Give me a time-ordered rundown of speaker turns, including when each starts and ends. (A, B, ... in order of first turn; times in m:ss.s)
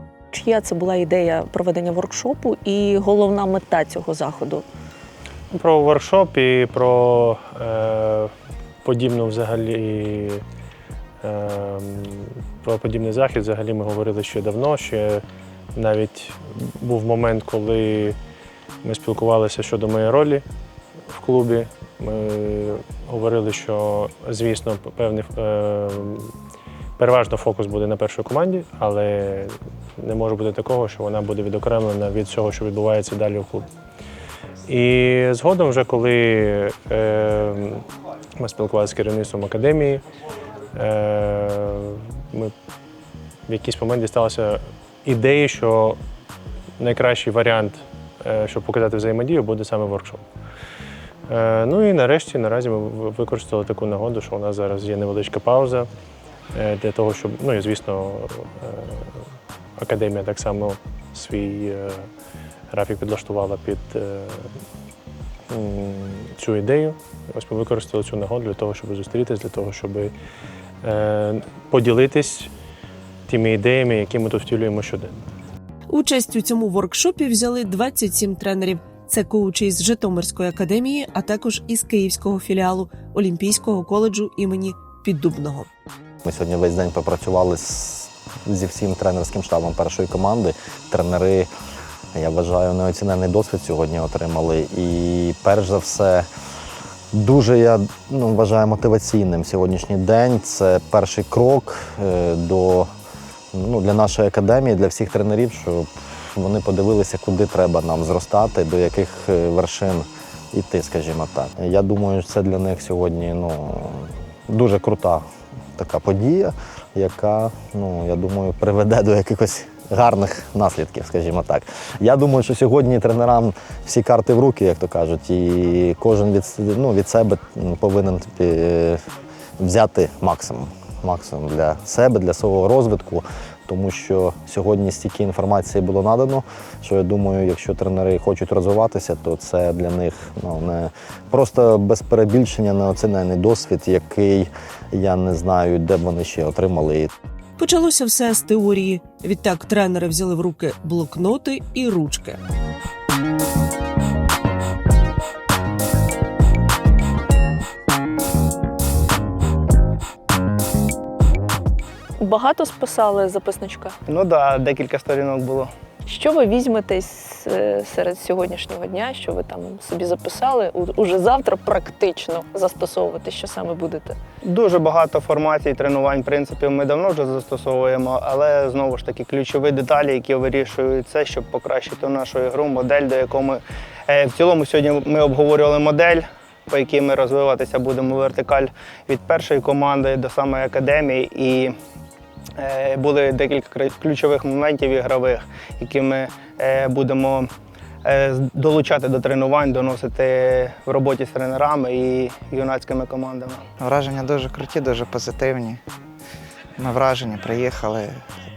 0:00.3-0:04.6 A
0:05.5-0:08.3 B
0:08.8-0:10.4 B
0:11.2-0:15.2 B
0:15.7-0:18.2 B
0:18.8-0:20.4 B
0:21.1-0:26.3 B
0:27.0-0:33.7 B
0:34.6-0:37.8 B
0:38.4-0:40.0 B
0:40.7-0:42.5 B
0:43.5-0:46.0 B
0:46.8-0:50.2 B
0:51.3-0:55.9 B
0:56.5-0:59.1 B
0:59.8-1:02.1 B
1:02.7-1:04.5 B
1:05.5-1:10.1 B
1:10.8-1:12.5 B
1:13.3-1:15.2 B
1:15.9-1:25.7 C
1:26.2-1:31.5 D
1:32.1-1:36.3 D
1:37.1-1:42.9 D
1:43.5-1:55.2 D
1:55.8-2:09.0 D
2:09.6-2:27.1 D
2:27.6-2:32.4 C
2:42.2-2:43.9 A
2:44.1-2:45.7 E
2:46.0-2:54.2 A
2:54.4-3:11.7 E
3:12.6-3:17.5 E
3:18.0-3:23.6 E
3:23.8-3:25.8 F
3:26.8-3:28.2 F